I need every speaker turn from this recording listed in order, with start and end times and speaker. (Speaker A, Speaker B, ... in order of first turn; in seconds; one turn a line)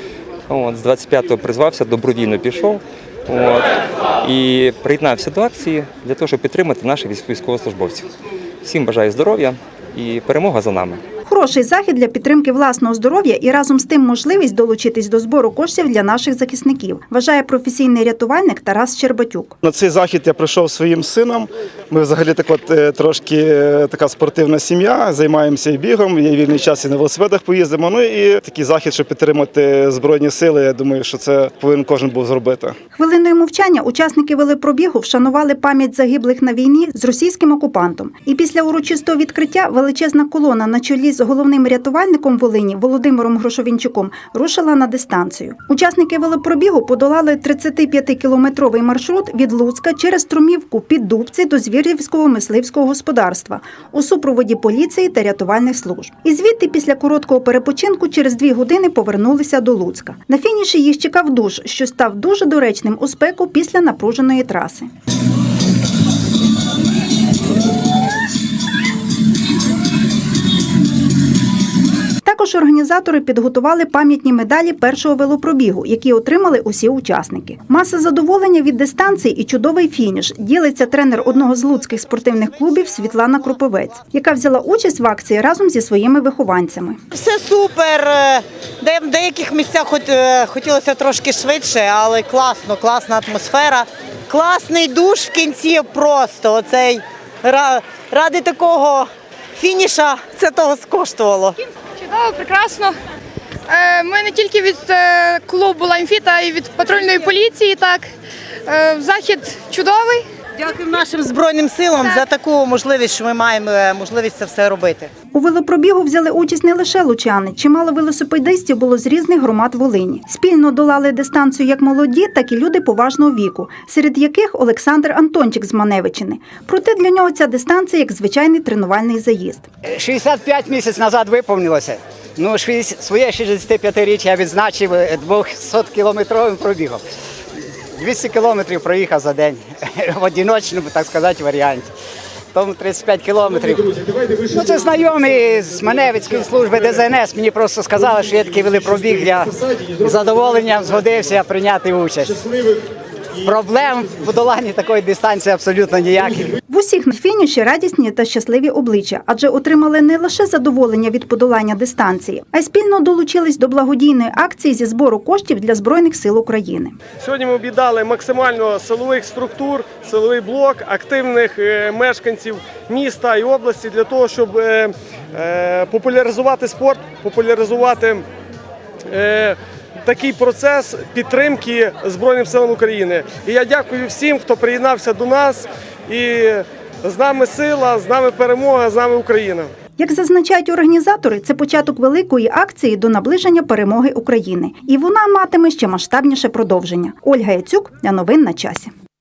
Speaker A: 0.5-8.1
Speaker A: 8.6-11.0
Speaker B: 11.2-19.5
Speaker C: 19.6-32.8
Speaker B: 32.9-64.9
Speaker B: 72.2-87.0
Speaker D: 87.1-101.6
Speaker E: 102.0-102.9
Speaker E: 103.7-108.0
Speaker E: 108.7-110.2
Speaker D: 110.6-115.1
Speaker B: 115.3-129.7
Speaker F: 129.8-137.0
Speaker F: 137.9-141.9
Speaker F: 142.5-152.4
Speaker F: 153.4-156.5
Speaker B: 156.7-167.0
Speaker G: 167.2-178.2
Speaker G: 179.1-189.7
Speaker B: 190.0-198.9